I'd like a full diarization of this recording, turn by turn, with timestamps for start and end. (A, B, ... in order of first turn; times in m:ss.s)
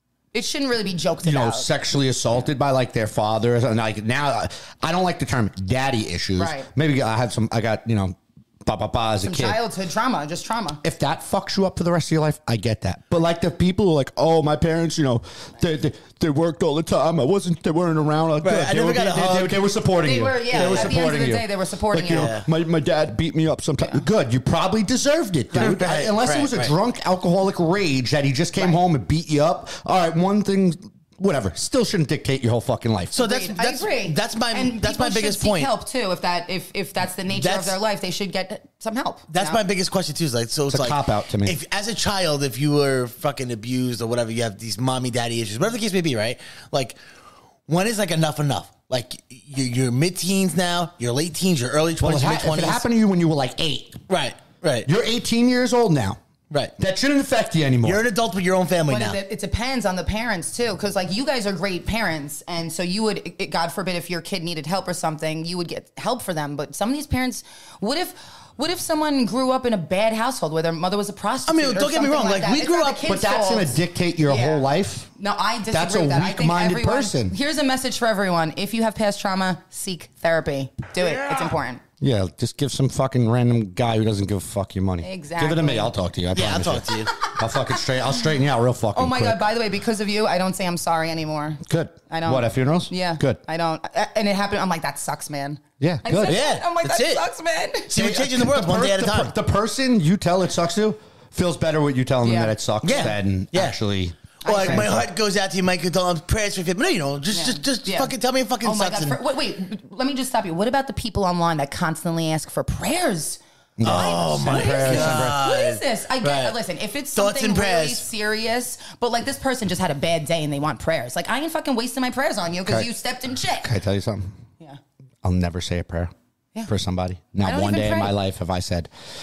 0:00.3-0:01.7 A
0:01.2-0:09.6 B
0:06.4-0:06.7 A
0:09.2-0:10.8 A
0:10.8-0:33.2 B
0:18.4-0:19.6 C
0:20.0-0:22.3 A
0:20.5-0:21.0 C
0:22.1-0:22.5 C
0:25.6-0:26.7 C
0:33.1-0:39.6 A
0:33.1-0:35.7 C
0:37.3-0:37.8 C
0:39.3-0:47.0 C
0:40.7-0:41.6 B
0:47.7-0:52.8 C
0:52.0-0:54.0 B
0:54.1-0:54.9 C
0:54.8-0:56.2 B
0:56.8-0:58.0 B
0:57.8-0:59.2 C
0:58.9-1:21.8 A
1:11.5-1:13.1 C
1:13.1-1:15.1 B
1:15.7-1:17.4 B
1:21.0-1:21.5 C
1:22.0-1:29.5 B
1:25.0-1:25.9 A
1:26.3-1:27.2 C
1:28.9-1:37.9 A
1:31.7-1:33.4 B
1:35.8-1:36.4 B
1:36.2-1:37.2 C
1:37.9-1:39.3 C
1:38.0-1:45.1 B
1:42.2-1:43.1 A
1:42.8-1:43.8 C
1:44.4-1:44.9 A
1:44.5-1:49.2 C
1:47.3-2:03.7 A
1:53.8-1:55.4 B
1:53.8-1:56.6 C
1:57.1-1:58.0 C
2:03.6-2:04.4 B
2:05.2-2:06.1 B
2:06.7-2:08.9 B
2:07.4-2:08.2 A